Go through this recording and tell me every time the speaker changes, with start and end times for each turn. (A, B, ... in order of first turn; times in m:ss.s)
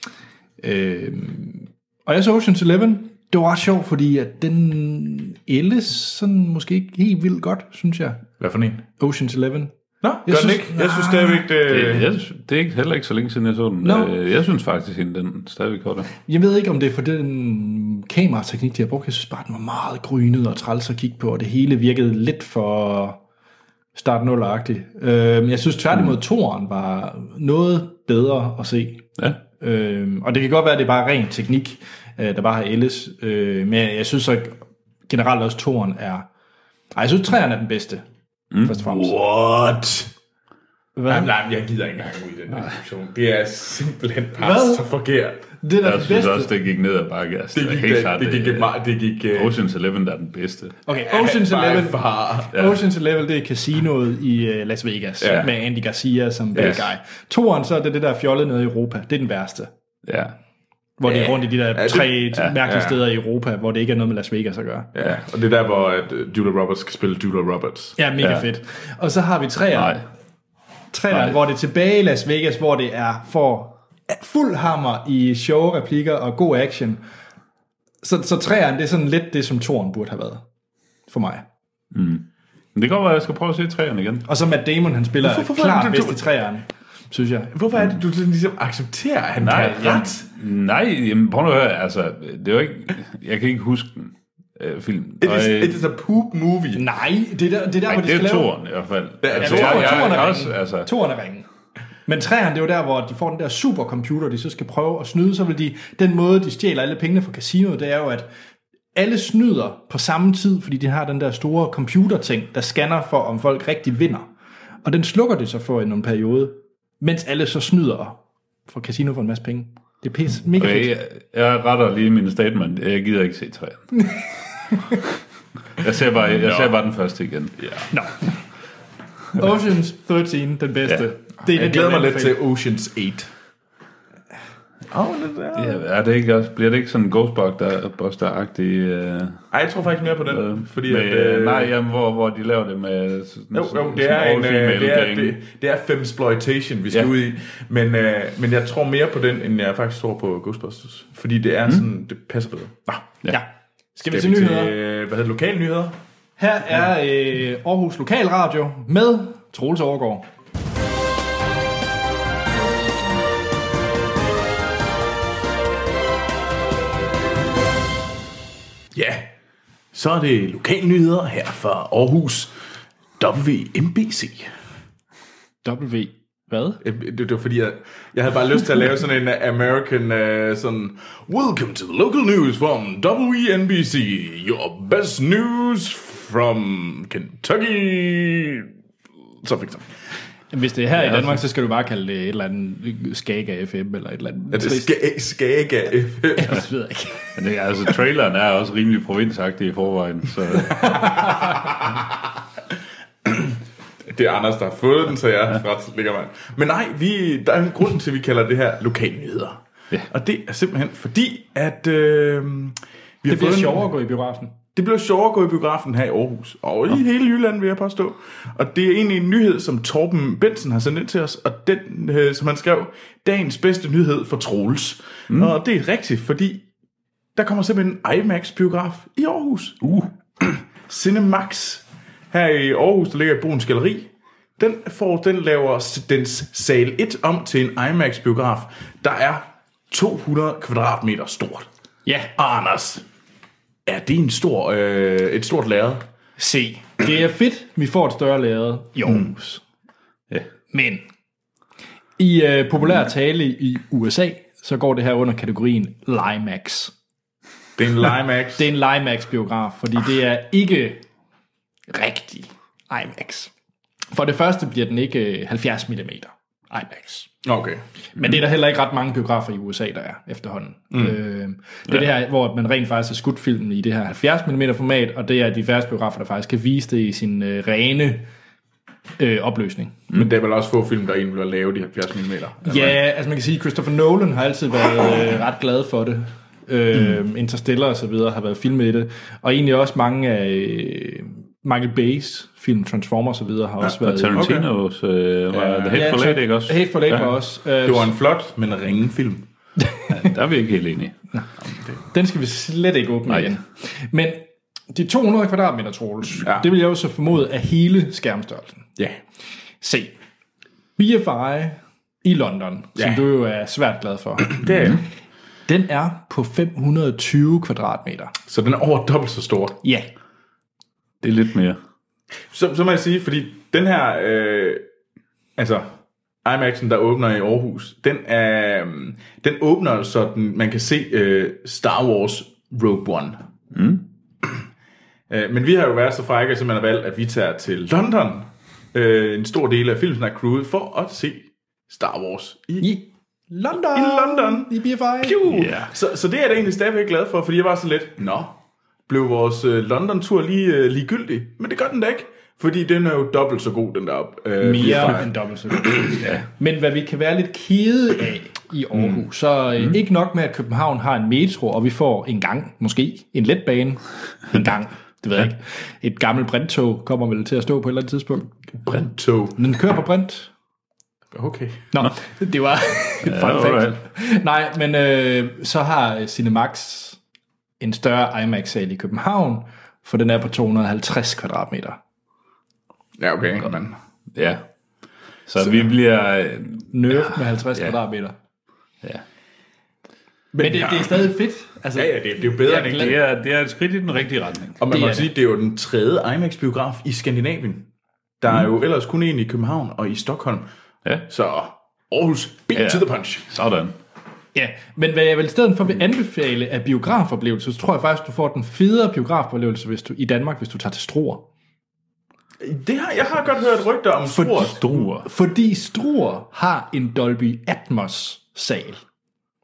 0:00.6-0:08.2 A
0:08.4-0:08.8 B
0:09.0-0:09.7 A
0:10.0-0:12.1 B
0:10.2-0:11.4 A
0:11.7-0:16.1 C
0:13.8-0:14.1 A
0:16.2-0:23.2 A
0:23.9-0:29.0 A
0:29.6-0:36.3 A
0:36.9-0:38.0 A
0:38.6-0:39.1 A
0:38.8-0:40.1 B
0:41.0-0:41.3 A
0:41.1-0:45.4 B
0:44.4-0:44.9 A
0:45.6-0:46.5 A
0:45.8-0:48.7 C
0:47.5-0:49.6 B
0:49.3-0:50.8 C
0:50.8-0:59.7 A
0:51.0-0:52.6 B
0:55.2-0:55.5 B
0:56.5-0:56.9 C
1:00.0-1:00.3 C
1:01.0-1:04.9 A
1:01.1-1:03.0 B
1:04.9-1:08.0 B
1:08.0-1:10.0 A
1:08.2-1:08.4 C
1:09.7-1:10.0 C
1:10.9-1:17.0 A
1:11.1-1:11.4 C
1:18.0-1:20.4 A
1:21.1-1:21.4 A
1:21.9-1:24.2 C
1:24.3-1:27.5 A
1:25.2-1:26.2 B
1:27.5-1:30.2 B
1:29.4-1:35.8 C
1:35.2-1:36.8 B
1:36.8-1:38.5 A
1:37.9-1:40.9 C
1:39.2-1:40.4 B
1:39.4-1:41.5 A
1:42.0-1:48.3 A
1:48.9-1:54.3 A
1:54.8-2:00.9 A
2:00.6-2:04.0 C
2:03.9-2:05.0 A
2:05.8-2:07.6 C
2:06.4-2:06.7 B
2:07.9-2:08.3 A
2:09.3-2:12.4 A
2:11.4-2:13.3 B
2:14.9-2:15.8 B
2:15.5-2:19.4 C
2:19.5-2:21.7 B
2:20.2-2:25.4 C
2:23.5-2:33.0 B
2:33.3-2:34.7 A
2:34.1-2:36.0 B
2:36.4-2:40.2 A
2:48.9-2:49.3 B
2:49.9-2:52.5 B
2:53.2-2:54.5 B
2:55.6-2:56.8 A
2:56.8-3:08.7 B
3:09.4-3:09.9 B
3:10.5-3:14.9 A
3:11.0-3:11.4 C
3:14.5-3:16.6 B
3:16.4-3:17.4 A
3:17.4-3:21.3 C
3:20.7-3:21.5 A
3:23.2-3:23.6 B
3:24.1-3:33.8 B
3:33.3-3:34.5 A
3:34.7-3:46.6 B
3:47.4-3:49.8 B
3:49.8-3:50.1 C
3:50.4-4:01.7 B
4:02.0-4:02.3 A
4:02.4-4:03.0 B
4:03.8-4:06.0 B
4:06.4-4:09.6 A
4:10.7-4:11.0 A
4:12.2-4:16.9 A
4:17.8-4:18.6 B
4:18.6-4:21.0 A
4:21.9-4:23.5 A
4:24.1-4:27.3 A
4:27.4-4:27.8 B
4:28.2-4:38.2 A
4:39.2-4:40.0 A
4:40.1-4:43.0 B
4:42.6-4:54.5 A
4:54.0-4:57.3 C
4:54.3-4:54.6 B
4:55.5-4:56.1 B
4:55.9-4:58.1 A
4:57.8-4:59.4 B
5:00.1-5:01.1 C
5:01.7-5:02.0 B
5:02.1-5:08.9 A
5:09.8-5:10.1 A
5:11.0-5:14.6 A
5:13.0-5:13.2 B
5:14.5-5:15.0 B
5:15.7-5:18.3 A
5:18.5-5:19.8 B
5:19.8-5:20.1 A
5:21.2-5:21.8 C
5:22.5-5:24.8 B
5:25.6-5:25.9 B
5:26.4-5:33.4 B
5:33.7-5:34.0 C
5:35.3-5:42.9 B
5:42.8-5:45.5 A
5:43.8-5:56.1 B
5:45.5-5:45.9 C
5:54.6-6:08.5 A
6:08.8-6:09.6 B
6:09.6-6:10.5 A
6:11.3-6:11.8 B
6:11.9-6:17.2 A
6:13.2-6:14.0 C
6:17.8-6:22.0 A
6:23.2-6:24.0 B
6:24.3-6:24.6 C
6:25.5-6:27.9 C
6:26.9-6:28.3 A
6:30.5-6:31.3 B
6:30.6-6:33.1 A
6:31.9-6:33.2 B
6:32.9-6:34.8 C
6:34.8-6:37.8 B
6:34.9-6:35.3 A
6:38.4-6:40.7 B
6:41.3-6:43.4 B
6:42.7-6:43.9 C
6:44.5-6:51.4 A
6:52.6-6:54.9 B
6:54.3-6:59.0 A
6:54.7-6:55.2 C